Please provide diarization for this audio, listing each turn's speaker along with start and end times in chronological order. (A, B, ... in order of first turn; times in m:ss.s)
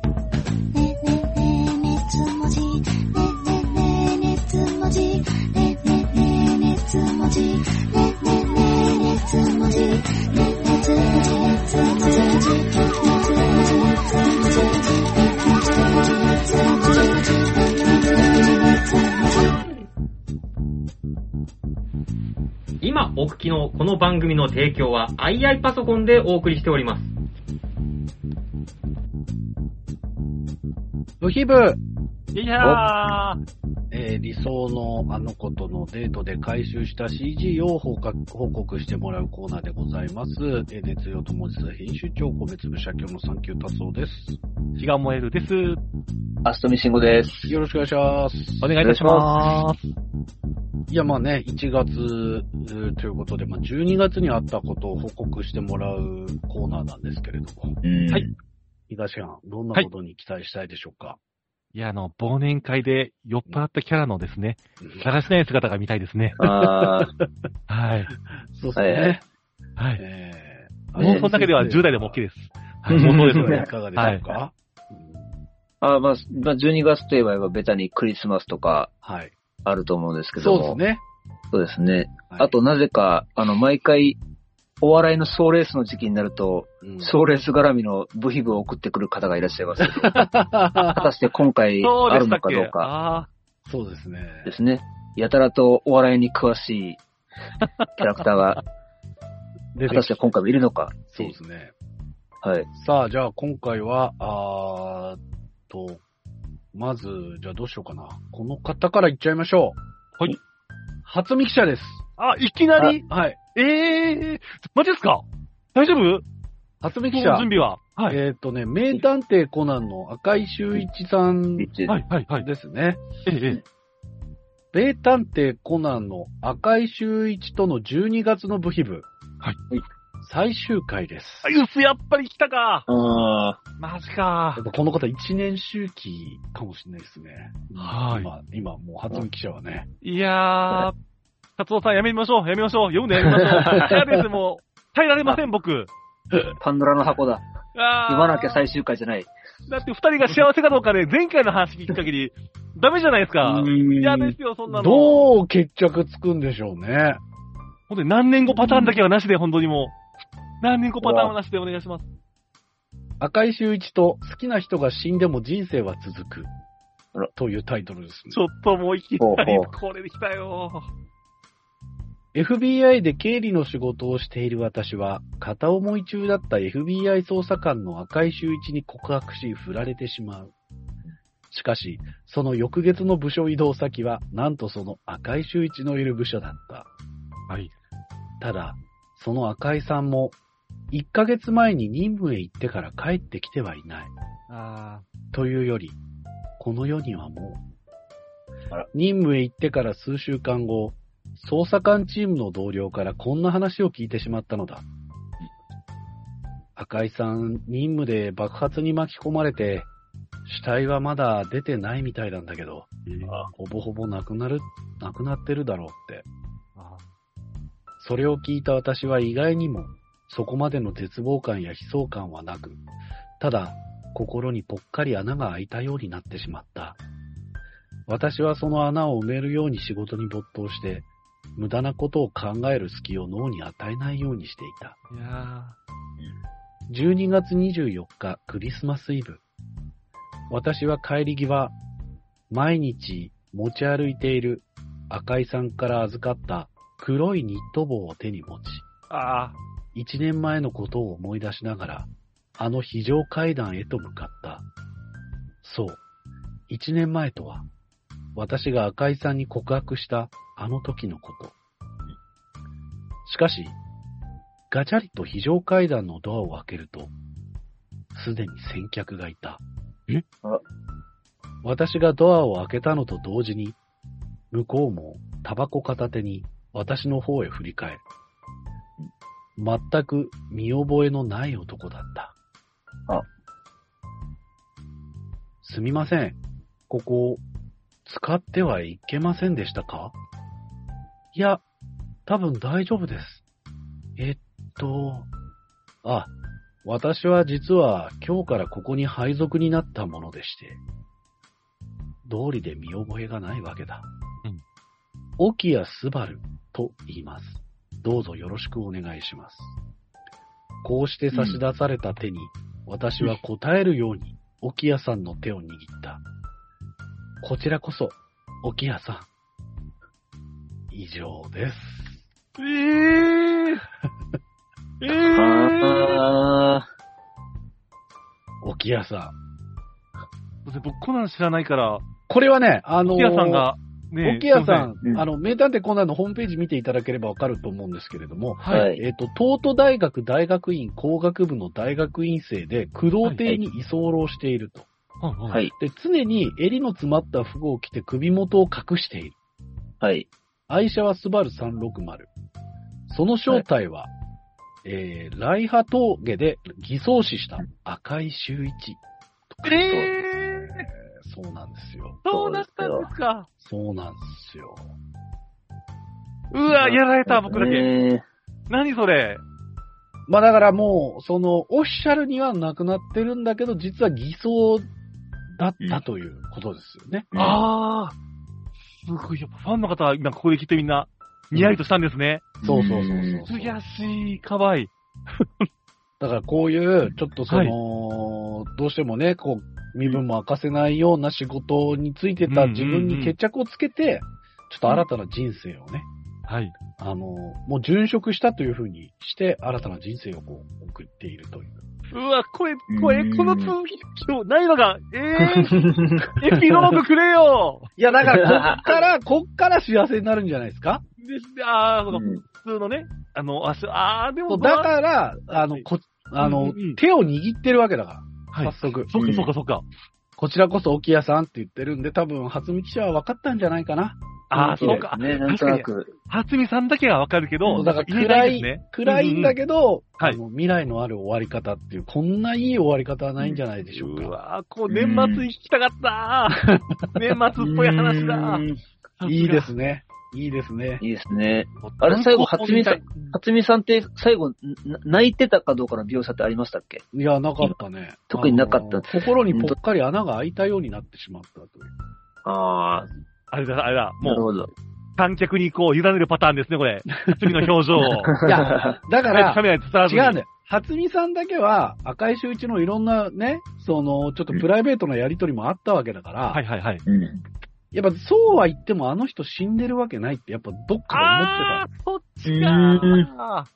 0:00.7-0:19.6 A
0:22.8-0:27.1 B
0:31.2-0:31.8 C
0:32.3-0:33.4 D
0:33.9-0:44.4 C
0:44.8-0:45.8 D
0:46.4-0:47.5 E
0:47.5-0:48.8 C
0:48.6-0:49.9 D
0:48.8-0:49.6 E
0:50.9-0:57.7 C
0:57.8-0:58.3 E
0:58.9-1:01.2 C
1:01.7-1:06.4 D
1:04.8-1:05.1 C
1:06.4-1:07.1 E
1:06.4-1:07.1 C
1:07.7-1:08.1 D
1:08.5-1:09.2 C
1:08.8-1:09.2 E
1:09.8-1:10.0 D
1:10.0-1:12.2 C
1:11.0-1:14.2 D
1:11.0-1:11.2 E
1:12.9-1:15.3 C
1:12.9-1:13.6 E
1:15.8-1:18.9 E
1:19.0-1:19.3 C
1:19.6-1:20.8 E
1:20.4-1:21.0 C
1:21.5-1:24.2 E
1:24.8-1:30.2 E
1:26.8-1:27.1 C
1:29.8-1:31.1 C
1:30.8-1:32.9 E
1:31.8-1:33.3 D
1:33.6-1:34.5 C
1:34.4-1:37.0 E
1:38.0-1:38.6 E
1:39.7-1:40.2 C
1:39.9-1:41.3 E
1:41.1-1:41.7 C
1:42.4-1:42.7 E
1:42.7-1:46.0 C
1:46.7-1:49.8 C
1:51.0-1:52.0 C
1:52.2-1:55.2 D
1:53.0-1:53.4 C
1:55.7-1:56.2 D
1:56.8-1:57.5 C
1:57.1-1:58.2 D
1:58.1-2:01.7 C
2:01.6-2:02.0 E
2:01.9-2:02.5 D
2:02.4-2:03.0 C
2:03.2-2:03.6 D
2:04.7-2:09.1 C
2:10.2-2:11.6 C
2:11.4-2:12.9 D
2:12.9-2:13.6 E
2:13.8-2:14.6 D
2:14.6-2:19.9 C
2:17.8-2:18.3 D
2:20.0-2:21.0 D
2:21.6-2:25.9 D
2:23.3-2:24.0 E
2:26.6-2:27.4 E
2:27.7-2:28.6 D
2:28.1-2:29.3 E
2:29.7-2:35.3 D
2:33.4-2:34.4 E
2:34.7-2:37.2 C
2:37.9-2:40.0 D
2:38.6-2:38.9 E
2:40.6-2:42.1 D
2:41.0-2:41.3 E
2:43.2-2:46.5 C
2:47.4-2:48.4 C
2:48.3-2:50.9 D
2:49.2-2:49.7 E
2:52.3-3:00.5 C
3:01.5-3:06.9 C
3:08.4-3:10.4 C
3:10.9-3:14.1 C
3:14.5-3:15.0 D
3:15.3-3:16.0 C
3:16.6-3:17.6 C
3:18.9-3:24.8 C
3:26.8-3:29.9 C
3:30.4-3:32.9 C
3:33.1-3:33.4 D
3:33.5-3:36.2 C
3:36.8-3:37.1 D
3:38.0-3:42.8 C
3:43.4-3:47.0 C
3:48.1-3:55.0 C
3:55.1-3:55.8 D
3:56.9-3:59.4 C
4:00.5-4:01.8 C
4:02.5-4:08.8 C
4:09.1-4:09.6 D
4:09.9-4:14.7 C
4:15.6-4:16.0 C
4:16.7-4:17.6 C
4:18.3-4:21.5 C
4:23.2-4:23.8 C
4:24.7-4:27.1 C
4:28.1-4:29.6 C
4:31.6-4:33.8 C
4:34.5-4:38.0 C
4:39.6-4:42.3 C
4:45.6-4:46.4 C
4:46.9-4:47.4 C
4:48.0-4:50.2 C
4:51.3-4:51.6 C
4:52.2-4:53.4 C
4:54.2-4:55.3 C
4:56.0-4:56.3 C
4:56.8-5:00.8 C
5:02.2-5:04.1 C
5:05.4-5:09.8 C
5:10.8-5:16.2 C
5:17.4-5:19.3 C
5:20.9-5:22.2 C
5:22.6-5:23.8 D
5:25.0-5:26.2 D
5:25.3-5:26.9 E
5:28.6-5:29.4 C
5:30.6-5:32.0 D
5:32.3-5:33.7 C
5:33.0-5:34.9 D
5:34.2-5:44.9 C
5:38.7-5:39.0 E
5:45.2-5:45.6 D
5:45.5-5:45.7 E
5:45.8-5:49.4 C
5:50.0-5:50.3 E
5:50.7-5:52.3 C
5:53.1-5:54.1 C
5:54.8-5:59.0 C
5:59.6-6:00.9 D
6:00.4-6:02.2 C
6:02.2-6:03.5 D
6:02.3-6:03.1 E
6:03.6-6:04.9 C
6:06.5-6:07.9 D
6:06.7-6:07.0 C
6:07.2-6:08.2 E
6:08.7-6:09.4 D
6:10.3-6:14.9 C
6:15.5-6:17.3 C
6:17.3-6:17.6 E
6:17.4-6:18.2 D
6:18.9-6:22.5 D
6:22.6-6:23.4 E
6:22.6-6:23.8 C
6:23.5-6:25.6 D
6:26.2-6:36.1 C
6:27.5-6:27.8 D
6:32.5-6:33.4 D
6:36.5-6:36.7 D
6:37.0-6:41.8 C
6:42.1-6:47.9 D
6:42.9-6:43.7 E
6:45.4-6:46.3 E
6:46.4-6:47.0 C
6:48.0-6:51.0 C
6:48.2-6:48.9 E
6:51.2-6:54.9 D
6:52.1-6:52.4 E
6:54.5-6:59.1 C
6:55.5-6:55.8 D
6:56.4-6:57.0 D
6:58.5-6:59.8 D
6:59.1-6:59.5 E
7:00.4-7:05.0 C
7:04.5-7:09.6 D
7:04.6-7:06.1 E
7:07.7-7:14.4 C
7:13.9-7:18.6 D
7:14.9-7:15.4 E
7:16.6-7:17.1 C
7:17.6-7:18.8 E
7:19.2-7:19.7 D
7:19.2-7:21.0 C
7:21.0-7:27.0 E
7:21.8-7:23.4 D
7:27.1-7:31.9 C
7:28.3-7:29.8 E
7:32.4-7:33.1 E
7:33.5-7:34.4 D
7:34.2-7:34.7 E
7:35.2-7:38.4 D
7:37.3-7:37.6 C
7:38.3-7:39.0 E
7:38.4-7:46.6 C
7:39.3-7:40.4 D
7:46.5-7:47.0 D
7:47.0-7:47.4 E
7:47.9-7:51.8 C
7:51.1-7:53.7 D
7:52.4-7:53.3 E